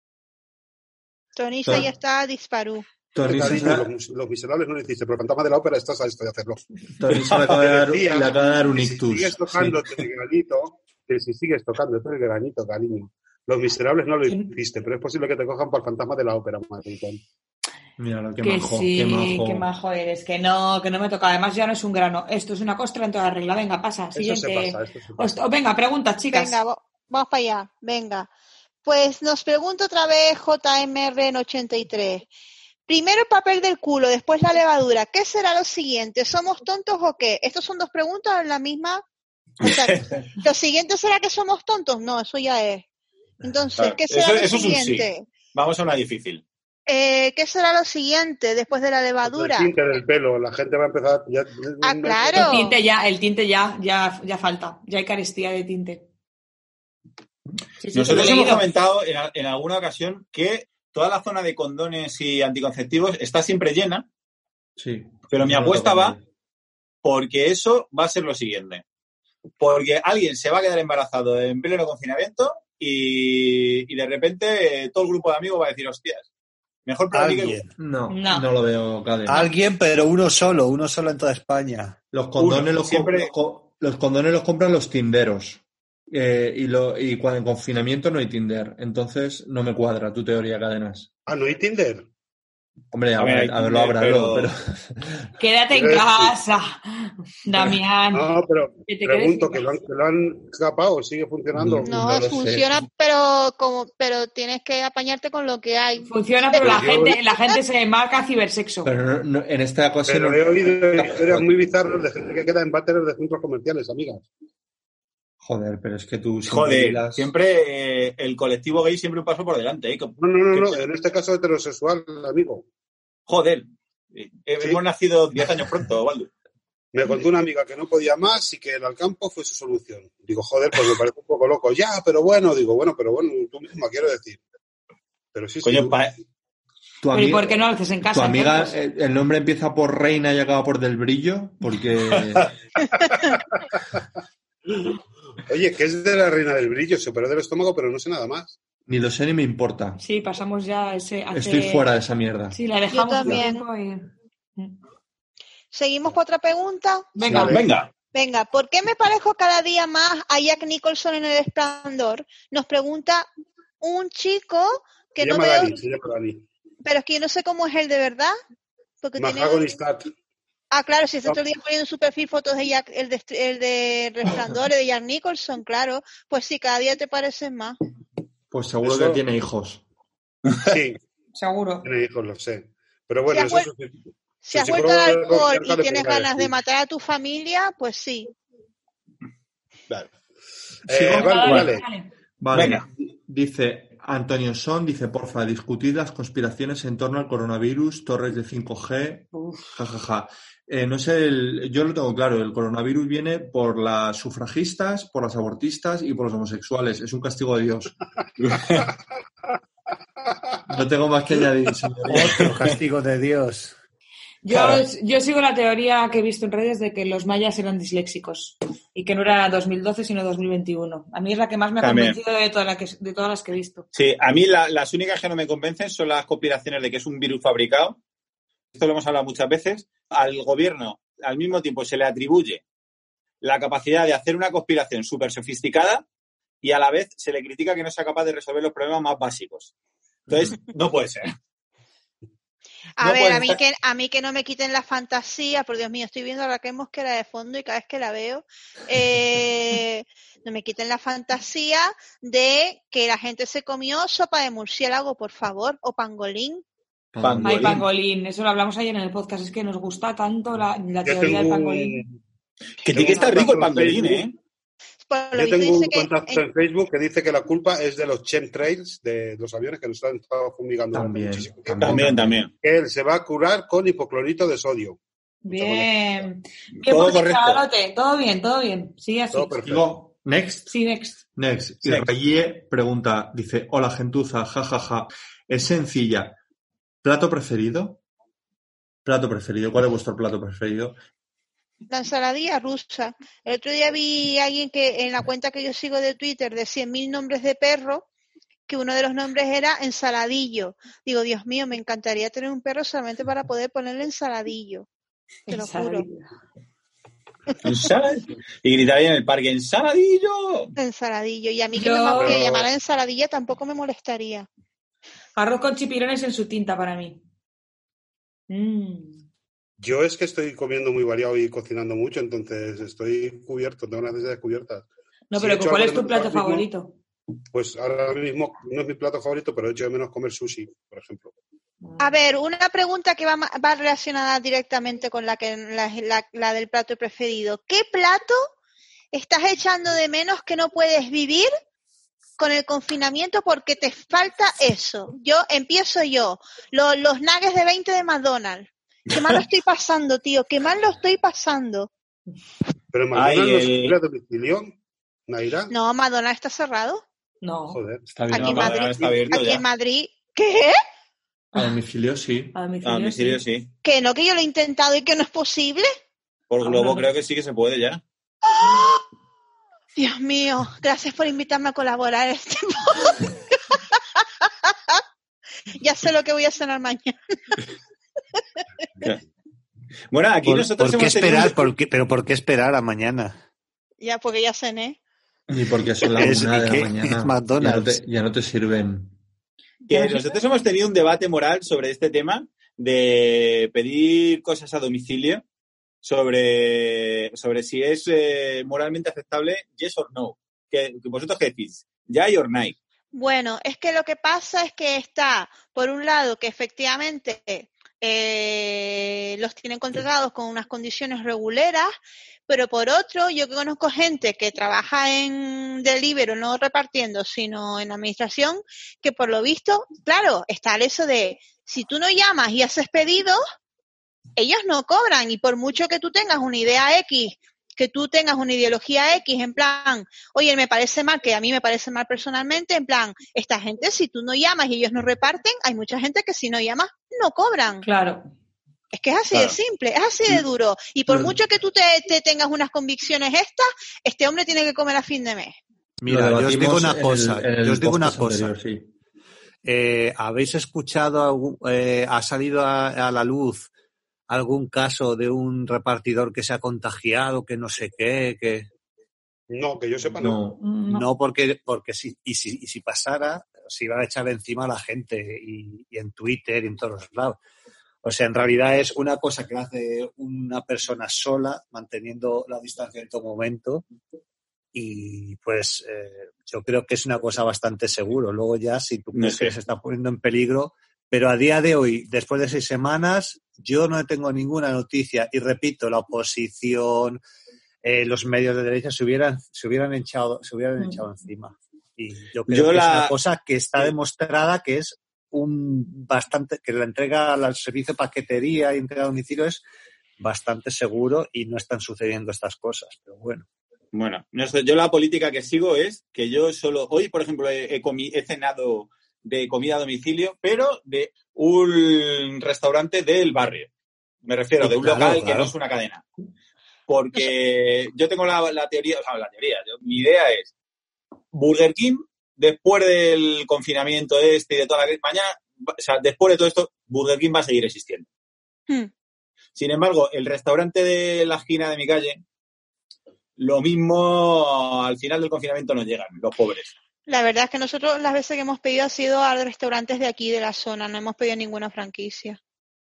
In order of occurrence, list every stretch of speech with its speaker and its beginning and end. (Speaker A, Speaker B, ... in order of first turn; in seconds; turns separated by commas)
Speaker A: 1.4-2.9, Speaker B: 1.6-1.9, Speaker B: 3.1-3.9, Speaker C: 3.2-6.6, Speaker B: 7.0-9.8, Speaker C: 7.2-17.2, Speaker B: 18.0-19.7, Speaker D: 18.4-26.6, Speaker C: 24.1-25.3, Speaker A: 26.3-28.3, Speaker A: 28.9-32.3, Speaker A: 32.9-39.0, Speaker A: 39.6-42.9, Speaker E: 39.6-40.1, Speaker A: 43.4-45.3, Speaker E: 43.8-46.4, Speaker A: 46.9-49.7, Speaker C: 49.2-52.6, Speaker A: 51.8-52.8, Speaker D: 52.3-56.0, Speaker D: 57.8-58.7, Speaker E: 57.9-64.1, Speaker B: 64.8-66.2, Speaker E: 65.3-66.2, Speaker E: 67.0-68.8, Speaker E: 69.6-76.3, Speaker E: 76.9-77.6, Speaker F: 77.1-77.7, Speaker B: 77.8-79.5, Speaker D: 78.1-78.5, Speaker F: 79.3-82.0, Speaker B: 82.1-91.1, Speaker E: 82.4-83.3, Speaker C: 91.3-92.1, Speaker B: 92.9-95.3, Speaker E: 93.2-94.5, Speaker D: 95.4-98.3, Speaker C: 95.7-96.3, Speaker C: 98.1-102.0, Speaker D: 98.9-99.7, Speaker B: 101.5-102.7, Speaker A: 101.8-106.7, Speaker D: 106.0-108.9, Speaker C: 106.6-107.2, Speaker B: 108.8-110.4, Speaker C: 110.1-114.2, Speaker B: 111.0-111.5, Speaker B: 115.4-117.3, Speaker E: 116.5-120.8, Speaker C: 120.2-122.7, Speaker E: 123.3-126.3, Speaker C: 126.9-134.4, Speaker C: 135.3-136.0, Speaker E: 135.6-136.1, Speaker B: 137.0-142.5, Speaker D: 137.1-138.8, Speaker C: 143.1-143.4, Speaker C: 145.5-148.6, Speaker B: 148.9-150.0, Speaker D: 150.0-151.9, Speaker B: 151.3-152.6, Speaker D: 152.5-154.1, Speaker A: 152.9-153.6, Speaker A: 155.7-157.1, Speaker D: 157.2-157.7, Speaker C: 157.3-157.6, Speaker E: 157.5-157.9, Speaker A: 158.1-163.3, Speaker A: 163.8-165.8, Speaker C: 165.2-166.4, Speaker A: 166.8-168.3, Speaker A: 169.0-169.8, Speaker C: 169.2-170.1, Speaker A: 170.7-177.8, Speaker B: 178.5-179.8, Speaker C: 178.8-179.2, Speaker C: 180.7-181.0, Speaker D: 181.3-181.9, Speaker C: 181.8-184.0, Speaker A: 183.3-183.7, Speaker A: 184.4-188.3, Speaker C: 184.5-186.5, Speaker B: 190.9-191.7, Speaker C: 190.9-191.8, Speaker D: 191.1-192.1, Speaker B: 192.4-207.9, Speaker E: 192.5-192.9, Speaker D: 199.3-199.8, Speaker E: 208.4-208.9, Speaker B: 210.7-212.5, Speaker F: 212.1-213.8, Speaker D: 214.4-223.8, Speaker E: 214.5-214.8, Speaker E: 221.8-222.2, Speaker E: 223.9-228.0, Speaker E: 228.8-232.6, Speaker E: 233.4-236.0, Speaker E: 236.6-239.7, Speaker E: 240.3-241.3, Speaker A: 243.0-256.6, Speaker E: 243.0-243.6, Speaker B: 257.1-257.8, Speaker E: 257.2-257.9, Speaker D: 257.4-262.0, Speaker C: 261.0-262.1, Speaker E: 262.8-264.4, Speaker C: 262.9-264.3, Speaker A: 265.1-266.4, Speaker C: 265.4-272.1, Speaker B: 270.9-272.5, Speaker E: 271.8-272.5, Speaker C: 272.6-275.0, Speaker D: 275.4-279.6, Speaker C: 275.5-276.3, Speaker E: 276.9-277.6, Speaker C: 279.3-279.9, Speaker B: 279.6-280.7, Speaker D: 280.7-281.2, Speaker B: 281.4-286.4, Speaker E: 281.8-282.1, Speaker B: 287.0-288.0, Speaker B: 289.1-291.0, Speaker A: 291.9-298.1, Speaker A: 298.7-304.9, Speaker D: 305.5-306.3, Speaker A: 305.5-306.1, Speaker E: 307.6-310.7, Speaker A: 310.8-314.5, Speaker D: 311.8-312.4, Speaker C: 312.2-312.7, Speaker D: 315.4-317.2, Speaker D: 318.5-319.2, Speaker C: 319.8-326.7, Speaker D: 325.3-326.9, Speaker C: 327.5-331.3, Speaker D: 331.8-332.1, Speaker A: 332.0-338.5, Speaker A: 339.1-341.5, Speaker A: 342.4-351.9, Speaker C: 352.9-354.7, Speaker E: 353.1-354.0, Speaker C: 355.3-355.7, Speaker A: 355.7-357.0, Speaker D: 357.4-357.8, Speaker C: 357.7-358.1, Speaker B: 358.1-358.8, Speaker A: 358.3-360.8, Speaker E: 358.4-359.6, Speaker D: 361.5-361.8, Speaker B: 361.6-362.6, Speaker D: 362.5-363.4, Speaker E: 362.8-363.7, Speaker A: 363.8-365.9, Speaker E: 366.5-368.0, Speaker D: 366.6-367.1, Speaker A: 368.5-369.0, Speaker A: 370.0-374.0, Speaker A: 375.8-377.6, Speaker E: 380.1-381.6, Speaker F: 380.4-383.4, Speaker A: 384.0-385.0, Speaker B: 385.5-389.1, Speaker F: 386.2-388.0, Speaker E: 389.9-395.4, Speaker D: 389.9-390.4, Speaker E: 396.0-402.8, Speaker A: 403.1-411.9, Speaker A: 412.5-423.4, Speaker A: 424.4-437.9, Speaker D: 437.8-438.3, Speaker A: 438.9-445.6, Speaker F: 446.0-448.5, Speaker B: 446.1-448.9, Speaker F: 449.6-453.7, Speaker F: 454.3-458.7, Speaker C: 459.5-460.4, Speaker B: 460.2-460.6, Speaker D: 460.6-461.1, Speaker F: 460.9-467.4, Speaker F: 468.0-473.9, Speaker F: 474.7-487.2, Speaker E: 479.1-479.5, Speaker F: 487.8-499.6, Speaker E: 492.5-493.1, Speaker F: 500.2-503.5, Speaker E: 503.9-513.7, Speaker E: 514.2-516.0, Speaker F: 514.6-515.5, Speaker E: 516.9-520.5, Speaker E: 521.3-528.1, Speaker E: 529.6-532.2, Speaker E: 533.4-536.7, Speaker A: 537.1-542.4